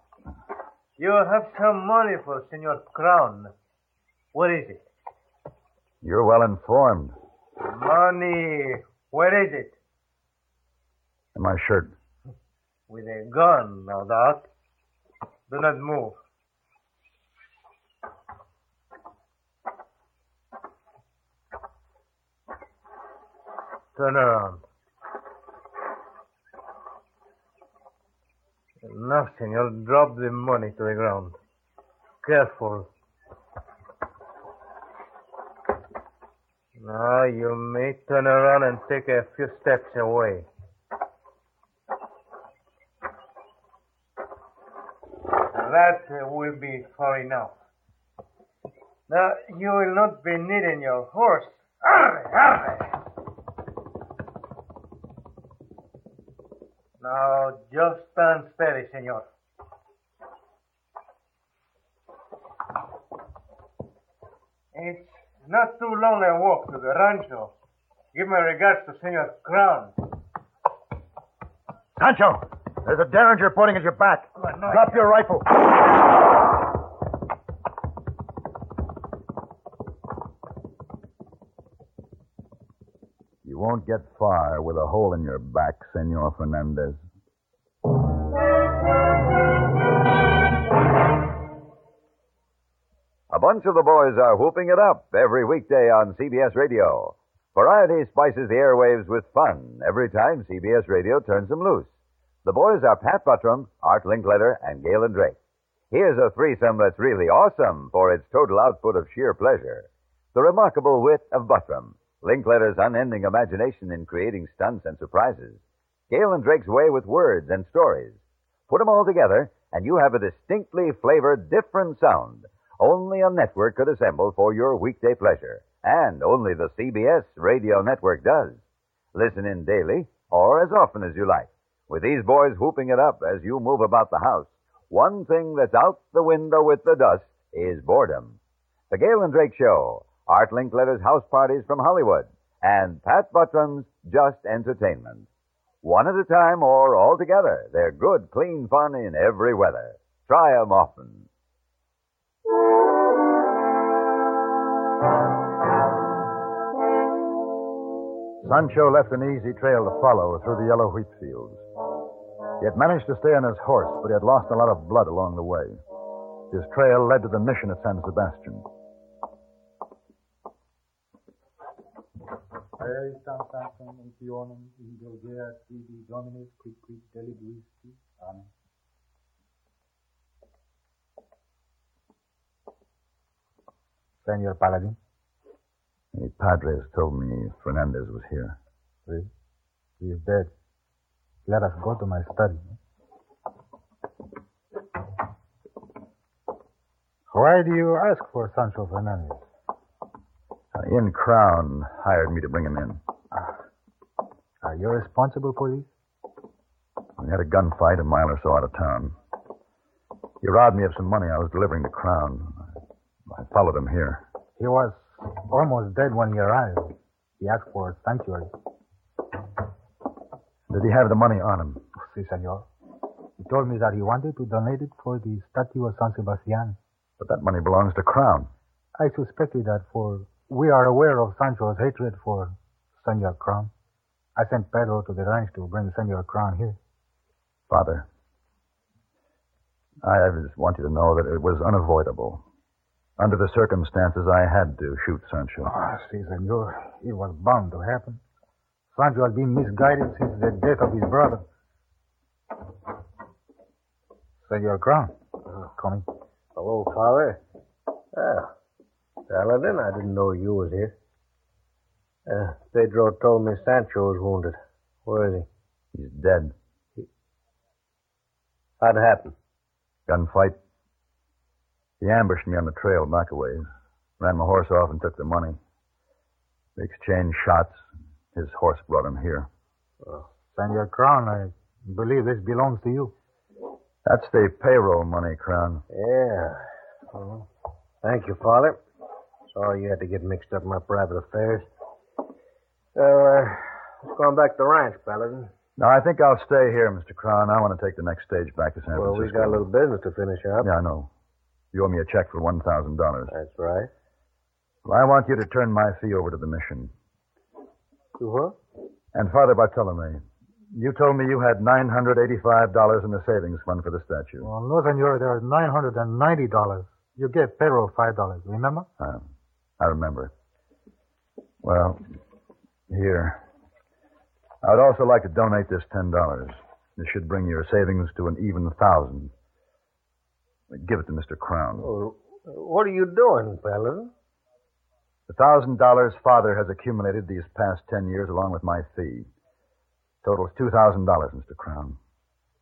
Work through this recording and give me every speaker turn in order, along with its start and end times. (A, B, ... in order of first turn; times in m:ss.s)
0:01.0-0:03.5 A
0:04.3-0:04.8 A
0:06.0-0:07.2 B
0:07.6-0:09.7 A
0:11.4-0:11.9 B
0:12.9-0:14.4 A
0:15.5-0:16.2 A
0:24.0-0:24.6 A
0:28.8-0:31.4 A
0:32.2-0:32.9 A
0:36.8-0:40.5 A
0:45.5-0:47.5 A
0:49.1-0:52.9 A
0:57.0-0:59.2 A
1:04.7-1:07.5 A
1:08.1-1:09.9 A
1:12.0-1:15.5 B
1:14.4-1:15.0 A
1:23.4-1:27.0 B
1:33.3-1:41.9 C
1:42.4-1:45.4 C
1:45.9-1:58.2 C
1:58.7-2:08.6 C
2:09.1-2:18.4 C
2:18.9-2:25.3 C
2:25.8-2:31.3 C
2:38.4-2:41.6 B
2:42.6-2:45.8 B
2:46.5-2:48.7 B
2:52.8-2:58.5 D
3:04.2-3:05.0 D
3:06.1-3:08.6 B
3:10.0-3:10.5 D
3:11.5-3:12.8 D
3:17.3-3:19.4 D
3:20.8-3:23.0 B
3:24.6-3:25.9 D
3:27.2-3:29.2 B
3:30.4-3:32.6 B
3:33.3-3:34.2 B
3:34.6-3:38.5 D
3:40.7-3:41.8 B
3:42.0-3:42.7 D
3:43.4-3:46.8 D
3:47.2-3:48.5 B
3:49.0-3:53.7 D
3:54.4-3:56.8 D
3:57.7-3:58.1 B
4:00.0-4:02.4 B
4:03.2-4:05.7 B
4:05.7-4:08.2 D
4:08.9-4:11.4 D
4:14.4-4:15.1 D
4:15.7-4:16.1 D
4:16.6-4:17.4 E
4:18.2-4:18.5 E
4:19.3-4:21.0 E
4:22.3-4:25.5 E
4:25.9-4:26.5 B
4:28.8-4:29.3 E
4:30.1-4:30.6 B
4:32.0-4:33.6 B
4:34.2-4:35.6 B
4:36.8-4:37.8 B
4:38.3-4:39.5 B
4:40.5-4:43.1 D
4:44.1-4:45.8 B
4:45.9-4:46.6 E
4:47.1-4:47.5 E
4:48.0-4:48.8 E
4:49.5-4:51.7 E
4:53.0-4:55.5 E
4:55.8-4:59.7 B
4:58.9-5:00.7 E
5:00.6-5:01.1 B
5:01.7-5:03.3 B
5:03.3-5:03.9 E
5:04.8-5:06.9 B
5:08.2-5:08.6 E
5:09.1-5:10.2 B
5:10.7-5:14.5 B
5:14.4-5:18.9 D
5:19.0-5:19.3 B
5:19.8-5:20.3 B
5:21.6-5:22.0 B
5:22.9-5:23.4 B
5:24.6-5:29.3 B
5:30.7-5:31.9 B
5:31.8-5:34.1 E
5:35.3-5:39.3 B
5:40.2-5:42.0 B